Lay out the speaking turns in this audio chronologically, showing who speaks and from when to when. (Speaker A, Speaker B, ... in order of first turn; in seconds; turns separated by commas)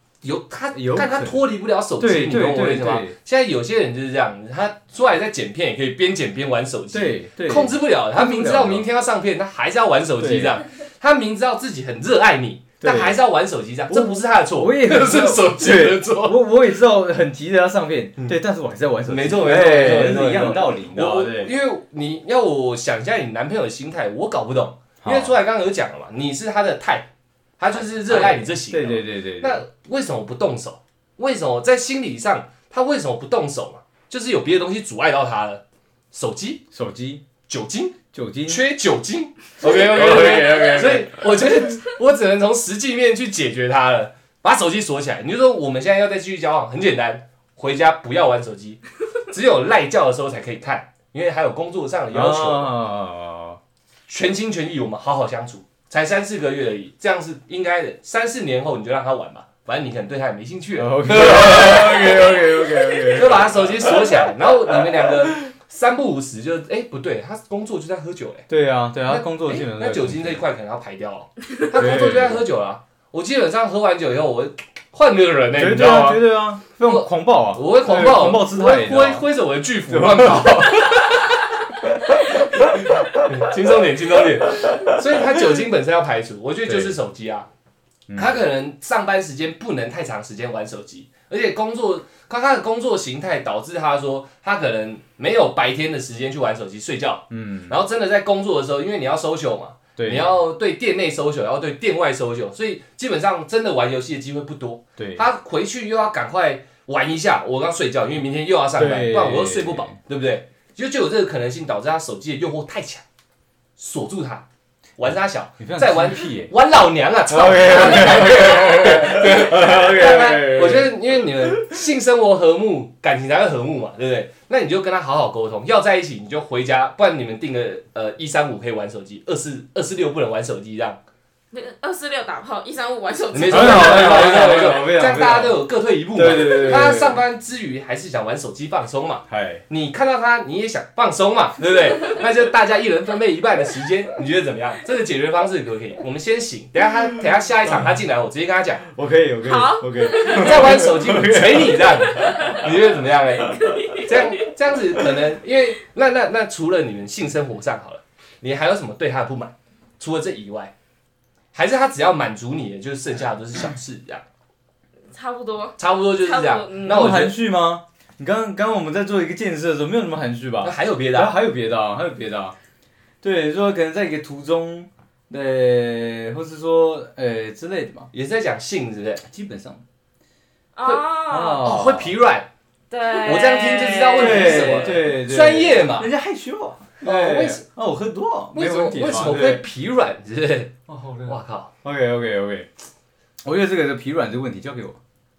Speaker A: 0.2-16.4, Speaker B: 0.7-1.4, Speaker B: 2.0-3.2, Speaker B: 6.9-8.9, Speaker B: 10.2-10.6, Speaker B: 12.8-13.2, Speaker B: 13.9-21.5, Speaker A: 19.1-27.1, Speaker B: 25.0-25.4, Speaker A: 27.6-36.6, Speaker B: 27.7-29.6, Speaker B: 36.7-37.2, Speaker A: 37.5-52.7, Speaker B: 38.1-38.7, Speaker B: 39.6-41.5, Speaker B: 52.1-53.6, Speaker A: 54.1-62.4, Speaker B: 60.8-64.3, Speaker A: 63.0-68.5, Speaker B: 68.5-70.4, Speaker A: 69.1-76.2, Speaker B: 71.7-72.5, Speaker B: 75.6-79.3, Speaker A: 76.8-87.5, Speaker B: 79.9-81.0, Speaker B: 84.6-84.9, Speaker B: 86.7-87.0, Speaker B: 88.1-88.4, Speaker A: 88.2-113.0, Speaker B: 97.3-97.8, Speaker B: 100.0-100.4, Speaker B: 105.0-105.2, Speaker B: 108.8-110.0, Speaker A: 113.8-114.5, Speaker A: 115.0-131.0, Speaker B: 115.1-116.5, Speaker B: 117.3-121.8, Speaker C: 131.5-134.4, Speaker A: 133.3-148.9, Speaker B: 133.5-135.6, Speaker B: 136.2-137.2, Speaker B: 139.3-139.6, Speaker B: 148.9-152.5, Speaker C: 149.4-150.8, Speaker A: 150.2-160.7, Speaker C: 152.2-152.6, Speaker C: 153.7-154.1, Speaker A: 161.5-164.2, Speaker C: 165.1-167.1, Speaker A: 165.8-167.4, Speaker B: 166.9-172.6, Speaker A: 170.6-171.4, Speaker B: 173.2-178.1, Speaker A: 178.1-179.2, Speaker B: 179.2-179.8, Speaker C: 180.8-181.7, Speaker B: 181.3-182.1, Speaker A: 181.6-182.5, Speaker C: 182.9-184.9, Speaker A: 183.2-186.1, Speaker B: 184.2-189.6, Speaker A: 187.0-187.6, Speaker A: 188.6-190.7, Speaker B: 190.9-192.7, Speaker A: 191.3-191.7, Speaker B: 193.4-195.0